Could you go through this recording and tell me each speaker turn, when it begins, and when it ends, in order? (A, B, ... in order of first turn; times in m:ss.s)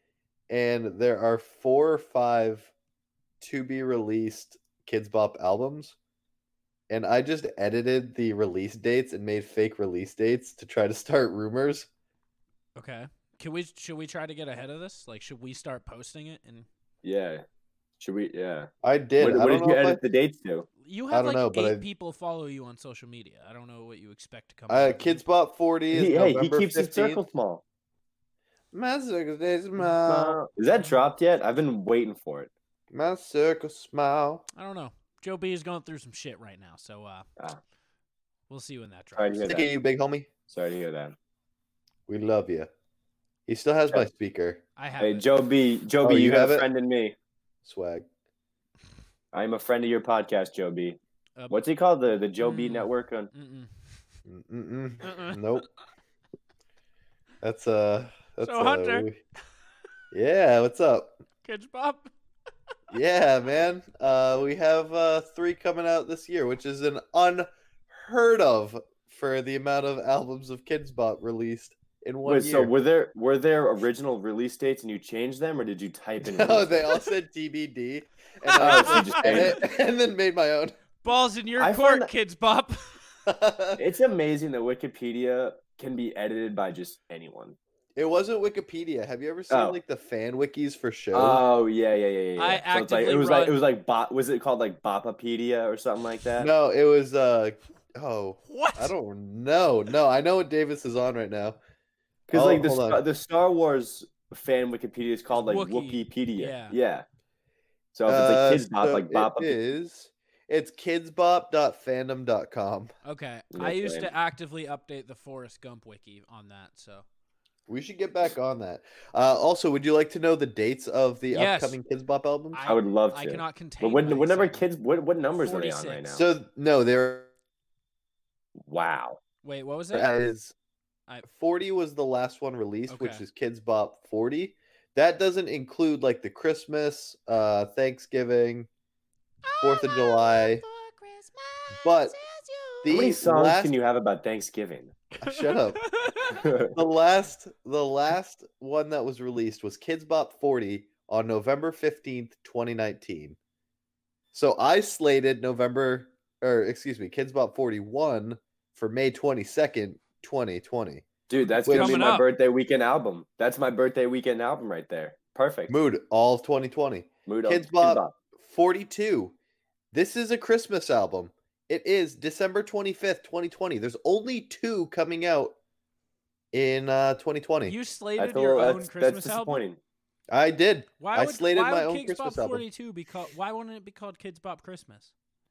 0:00.5-0:02.7 A
0:03.4-0:06.0 A
0:06.9-0:11.9 A
0:12.8-0:16.7 B
0:17.0-0:17.4 C
0:18.0-0:20.7 C
0:18.8-0:20.0 A
0:20.8-0:25.2 B
0:21.1-0:21.8 A
0:24.7-0:27.2 A
0:25.9-0:27.6 C
0:28.7-0:30.4 A
0:29.9-0:32.5 C
0:32.9-0:34.4 A
0:34.5-0:37.3 B
0:38.5-0:39.5 B
0:39.2-0:39.7 C
0:39.5-0:40.3 A
0:40.5-0:41.2 C
0:42.1-0:42.7 A
0:43.5-0:44.6 A
0:44.8-0:45.2 B
0:45.0-0:47.2 C
0:46.0-0:46.7 A
0:47.6-0:48.1 A
0:49.3-0:51.0 C
0:51.5-0:53.3 C
0:52.4-0:53.7 B
0:54.3-0:55.7 A
0:55.0-0:55.6 B
0:57.4-0:59.2 A
0:58.4-0:59.1 B
1:00.1-1:01.1 A
1:01.4-1:02.1 B
1:02.9-1:12.7 A
1:12.3-1:16.9 C
1:16.2-1:20.8 A
1:18.5-1:19.6 B
1:18.6-1:19.6 C
1:21.0-1:23.0 B
1:21.6-1:22.1 C
1:23.3-1:23.8 A
1:23.8-1:27.6 C
1:28.0-1:31.4 A
1:29.5-1:29.8 C
1:31.1-1:36.5 C
1:32.4-1:33.6 B
1:36.4-1:41.6 A
1:38.5-1:38.9 B
1:42.3-1:47.0 C
1:42.3-1:43.0 A
1:45.3-1:46.8 B
1:47.9-1:49.6 C
1:48.1-1:52.9 A
1:53.0-1:57.0 B
1:53.5-1:54.1 C
1:57.7-2:02.6 A
2:01.3-2:01.8 B
2:02.5-2:04.6 B
2:02.7-2:06.2 C
2:05.4-2:06.1 B
2:06.1-2:07.3 A
2:08.7-2:09.2 C
2:09.4-2:10.1 B
2:09.9-2:10.5 A
2:11.2-2:18.7 A
2:12.9-2:13.2 B
2:19.4-2:22.9 B
2:19.6-2:20.6 A
2:21.8-2:22.1 A
2:22.8-2:23.7 A
2:22.9-2:24.9 C
2:25.2-2:25.8 A
2:25.2-2:26.5 B
2:26.3-2:26.7 C
2:26.7-2:33.4 A
2:34.3-2:41.0 A
2:41.3-2:45.7 C
2:41.6-2:42.0 A
2:41.6-2:42.3 B
2:45.7-2:49.3 A
2:47.3-2:48.1 C
2:49.9-2:55.6 A
2:56.5-2:57.8 A
2:57.7-2:59.6 B
2:58.2-2:59.8 C
3:00.3-3:02.6 A
3:01.0-3:05.1 B